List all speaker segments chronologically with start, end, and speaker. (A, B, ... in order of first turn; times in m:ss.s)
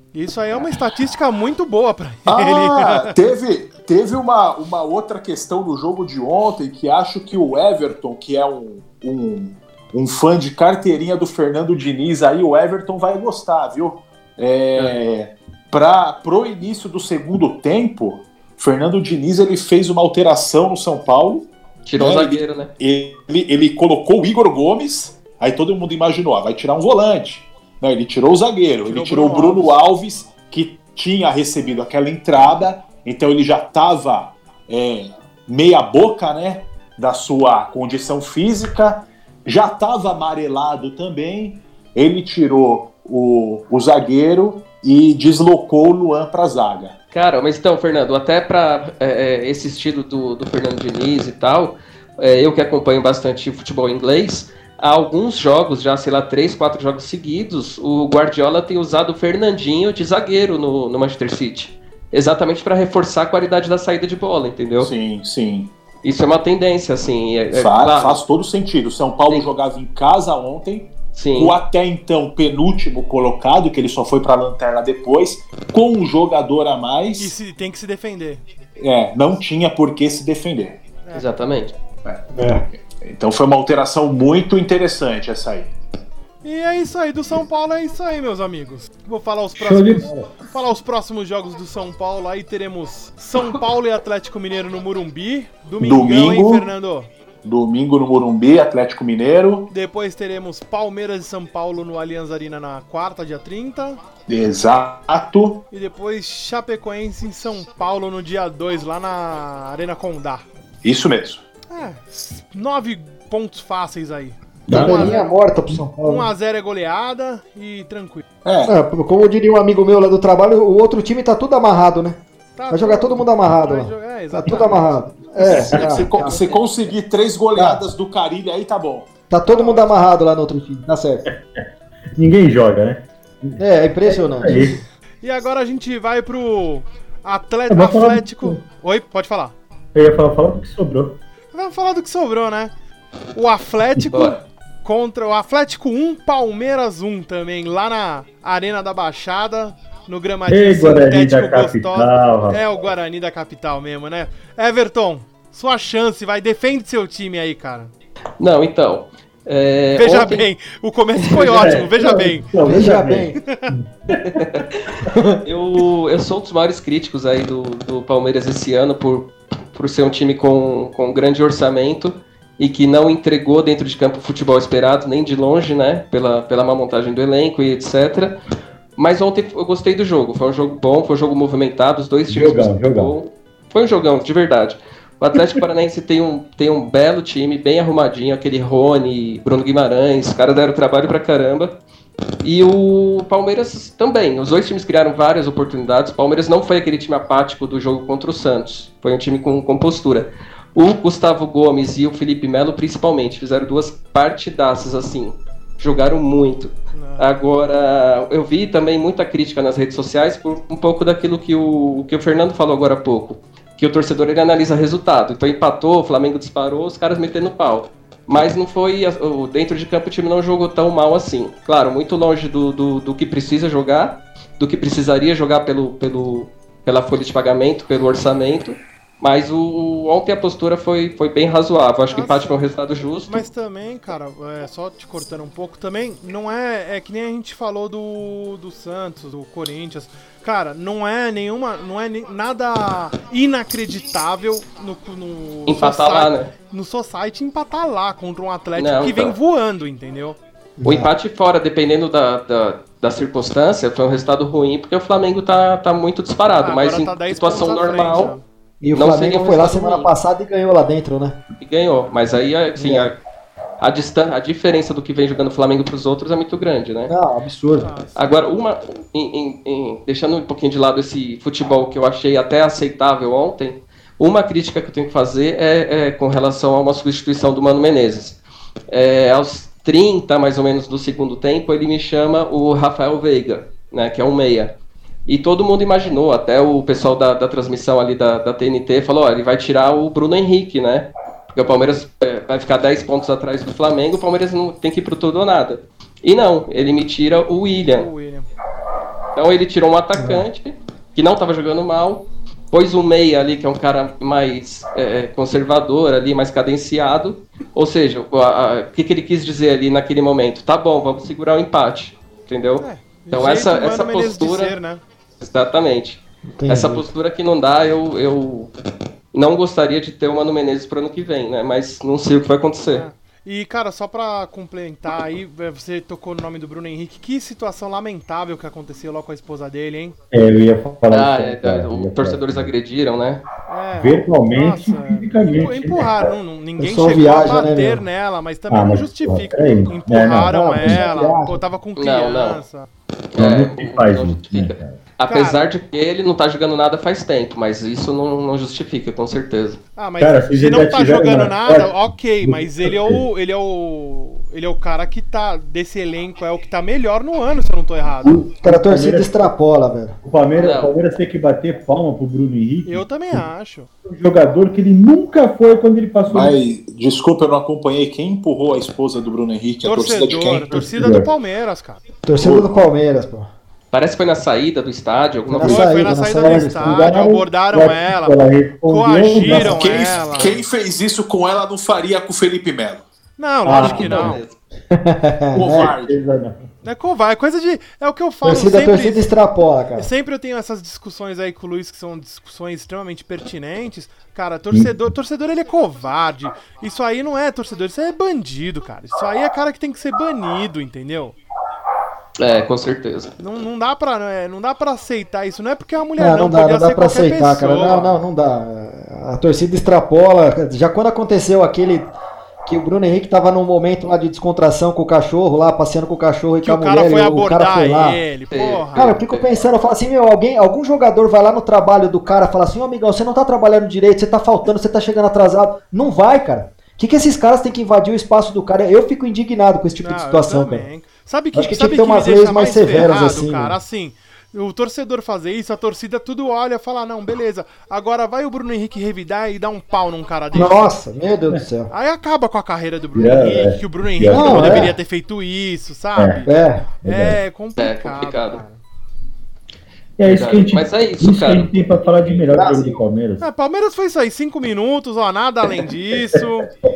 0:00.1-0:03.2 A
0:02.3-0:46.9 B
0:21.8-0:22.7 C
0:28.8-0:29.7 A
0:47.1-1:04.9 C
1:04.8-1:05.7 B
1:06.0-1:08.2 C
1:07.5-1:17.3 B
1:11.1-1:11.6 C
1:17.2-1:18.4 A
1:18.8-1:20.8 B
1:21.1-1:21.7 C
1:22.0-1:25.7 B
1:22.4-1:22.6 D
1:26.4-1:37.1 A
1:29.6-1:30.3 E
1:35.8-1:36.7 B
1:37.4-1:39.7 B
1:39.7-1:44.0 A
1:44.3-1:45.6 B
1:45.7-1:50.4 A
1:50.8-1:51.4 B
1:51.7-1:55.4 A
1:54.7-1:55.1 E
1:54.7-1:56.3 D
1:55.9-1:58.2 A
1:58.4-1:58.7 B
1:58.7-2:02.2 D
2:02.6-2:06.1 A
2:02.7-2:06.4 D
2:05.4-2:09.1 B
2:06.2-2:06.6 C
2:07.6-2:07.8 D
2:09.3-2:11.3 D
2:09.5-2:10.0 A
2:12.2-2:14.8 E
2:13.6-2:14.8 D
2:15.2-2:19.6 A
2:17.7-2:18.6 E
2:20.0-2:21.2 E
2:21.5-2:22.7 A
2:23.3-2:37.9 A
2:24.1-2:24.4 C
2:30.5-2:32.6 E
2:38.4-2:40.5 C
2:40.0-2:42.5 A
2:41.2-2:41.8 C
2:41.4-2:44.4 E
2:42.6-2:43.4 D
2:43.5-2:43.7 A
2:44.2-2:44.7 C
2:45.0-2:45.4 D
2:45.4-2:58.4 C
2:59.0-3:11.7 C
3:02.3-3:03.1 E
3:12.4-3:53.4 C
3:26.9-3:27.3 A
3:52.1-3:52.7 A
3:53.3-4:10.4 A
4:05.7-4:06.5 C
4:08.8-4:09.4 C
4:10.8-4:11.1 D
4:10.8-4:18.3 C
4:16.6-4:18.4 A
4:18.8-4:21.4 D
4:18.9-4:20.1 C
4:21.6-4:23.2 C
4:22.8-4:23.1 D
4:23.8-4:27.1 C
4:27.1-4:27.9 D
4:27.8-4:28.4 A
4:28.2-4:38.4 C
4:38.9-4:44.7 C
4:45.3-4:58.1 C
4:57.9-4:58.5 A
4:59.4-5:14.8 C
5:00.2-5:00.4 D
5:12.8-5:15.0 A
5:15.4-5:18.7 C
5:16.6-5:17.1 D
5:19.3-5:23.1 C
5:22.9-5:30.2 A
5:30.3-5:32.7 E
5:31.1-5:33.4 C
5:33.7-5:42.9 A
5:33.9-5:36.3 E
5:36.8-5:38.0 D
5:38.7-5:41.0 E
5:40.5-5:41.6 D
5:42.0-5:42.6 C
5:43.3-5:49.8 C
5:43.4-5:45.0 E
5:45.3-5:45.6 A
5:50.0-5:58.5 A
5:50.2-5:53.2 E
5:58.2-5:59.4 E
5:58.6-6:00.2 D
6:00.2-6:03.4 E
6:00.6-6:00.9 C
6:02.9-6:03.9 A
6:04.0-6:06.6 E
6:06.3-6:10.8 B
6:09.8-6:12.0 A
6:10.7-6:11.3 E
6:12.2-6:13.5 D
6:12.4-6:12.8 B
6:13.9-6:15.9 C
6:15.5-6:17.1 D
6:15.6-6:20.6 A
6:16.8-6:20.0 E
6:19.6-6:23.1 B
6:23.4-6:24.4 A
6:23.6-6:24.4 E
6:23.7-6:24.5 C
6:24.9-6:25.9 D
6:25.6-6:26.2 B
6:25.7-6:26.6 E
6:26.8-6:29.3 A
6:28.4-6:30.1 D
6:30.0-6:41.4 A
6:42.4-6:43.3 C
6:43.4-6:48.2 A
6:46.2-6:52.1 D
6:52.7-6:58.2 D
6:56.6-6:59.2 A
6:58.5-6:59.5 C
6:58.9-7:10.9 D
7:10.0-7:20.9 A
7:11.5-7:13.8 D
7:20.5-7:21.9 D
7:21.9-7:26.5 A
7:23.2-7:24.9 E
7:24.3-7:24.9 D
7:26.2-7:26.4 E
7:26.5-7:26.8 D
7:27.0-7:27.4 E
7:27.0-7:28.8 A
7:27.8-7:28.6 C
7:30.2-7:33.4 E
7:30.3-7:32.4 C
7:32.5-7:33.0 D
7:33.4-7:36.7 A